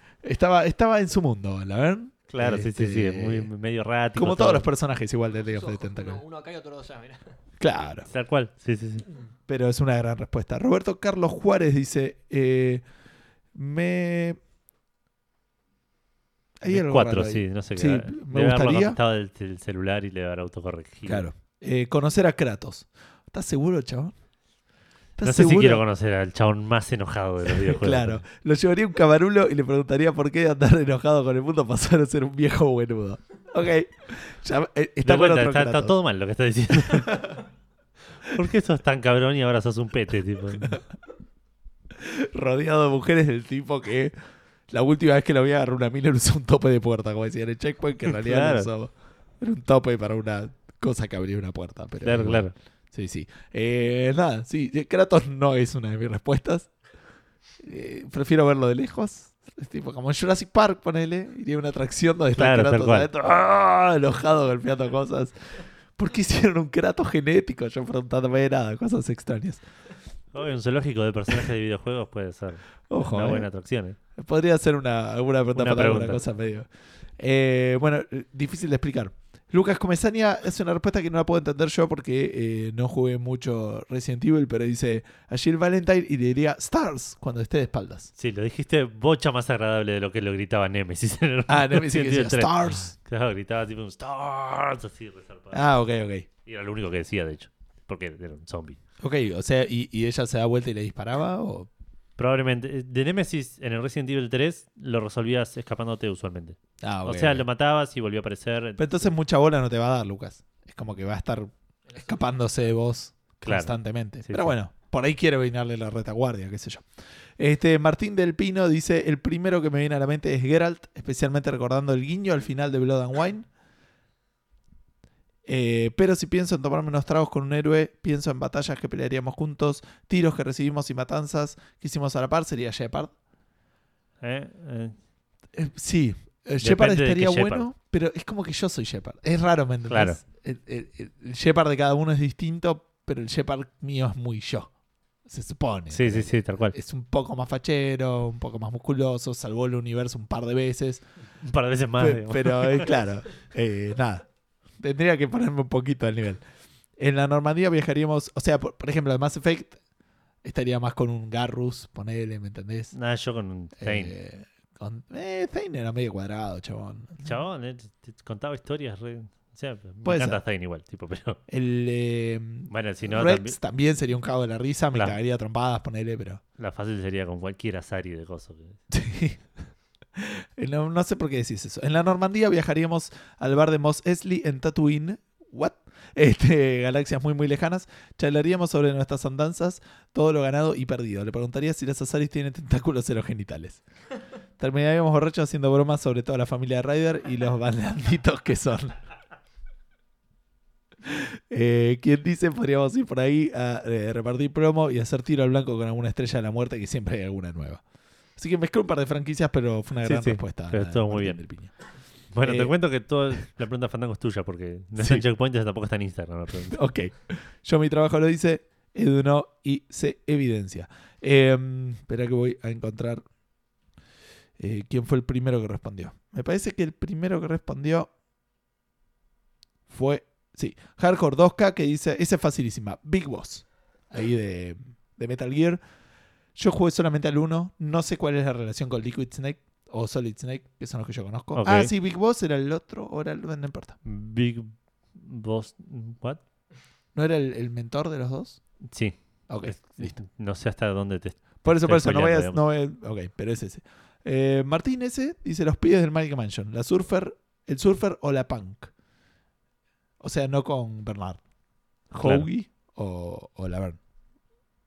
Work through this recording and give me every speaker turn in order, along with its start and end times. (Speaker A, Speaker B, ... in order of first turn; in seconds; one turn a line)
Speaker A: 0.2-3.5
Speaker B: 2.3-4.7
Speaker A: 4.1-6.2
Speaker C: 5.5-7.3
Speaker A: 7.6-8.1
Speaker B: 8.1-9.1
Speaker A: 9.5-12.8
Speaker A: 13.5-14.4
Speaker A: 16.6-19.0
Speaker B: 16.6-21.2
Speaker A: 21.0-24.1
Speaker A: 25.2-25.8
Speaker B: 25.2-28.2
Speaker A: 27.5-36.0
Speaker B: 35.0-37.3
Speaker B: 38.2-40.8
Speaker A: 41.9-44.1
Speaker A: 44.7-56.7
Speaker B: 48.1-48.7
Speaker B: 52.0-52.5
Speaker A: 57.6-69.6
Speaker B: 62.4-63.1
Speaker B: 70.3-74.0
Speaker A: 72.9-73.5
Speaker A: 74.1-88.1
Speaker B: 75.5-76.2
Speaker B: 88.2-95.7
Speaker A: 91.5-92.9
Speaker A: 95.5-96.3
Speaker B: 96.4-98.8
Speaker A: 99.0-101.7
Speaker B: 102.2-109.1
Speaker A: 106.8-107.4
Speaker A: 108.8-116.8
Speaker C: 111.8-112.6
Speaker B: 113.4-114.5
Speaker A: 117.4-123.5
Speaker A: 125.4-133.1
Speaker B: 134.2-134.9
Speaker A: 135.5-144.7
Speaker B: 136.6-137.7
Speaker B: 139.9-140.2
Speaker A: 145.3-151.0
Speaker B: 145.9-146.8
Speaker B: 151.4-152.9
Speaker A: 152.0-154.3
Speaker A: 154.8-156.4
Speaker A: 157.0-159.8
Speaker A: 160.4-162.9
Speaker B: 162.9-164.1
Speaker A: 163.8-167.3
Speaker B: 167.2-171.4
Speaker A: 170.0-170.4
Speaker A: 171.5-176.4
Speaker B: 172.7-173.6
Speaker B: 176.6-178.8
Speaker A: 178.9-179.4
Speaker A: 180.1-193.8
Speaker A: 194.6-199.0
Speaker A: 201.0-207.8
Speaker A: 208.4-211.7
Speaker B: 210.0-211.4
Speaker B: 212.3-216.8
Speaker A: 212.4-212.7
Speaker A: 215.0-215.2
Speaker A: 216.7-223.2
Speaker A: 224.6-228.1
Speaker A: 229.9-235.8
Speaker A: 236.5-244.0
Speaker B: 241.5-241.9
Speaker B: 244.0-246.4
Speaker A: 247.1-248.6
Speaker B: 248.9-252.6
Speaker A: 249.5-250.2
Speaker A: 251.6-258.9
Speaker A: 260.2-261.4
Speaker A: 262.1-264.0
Speaker B: 262.2-262.5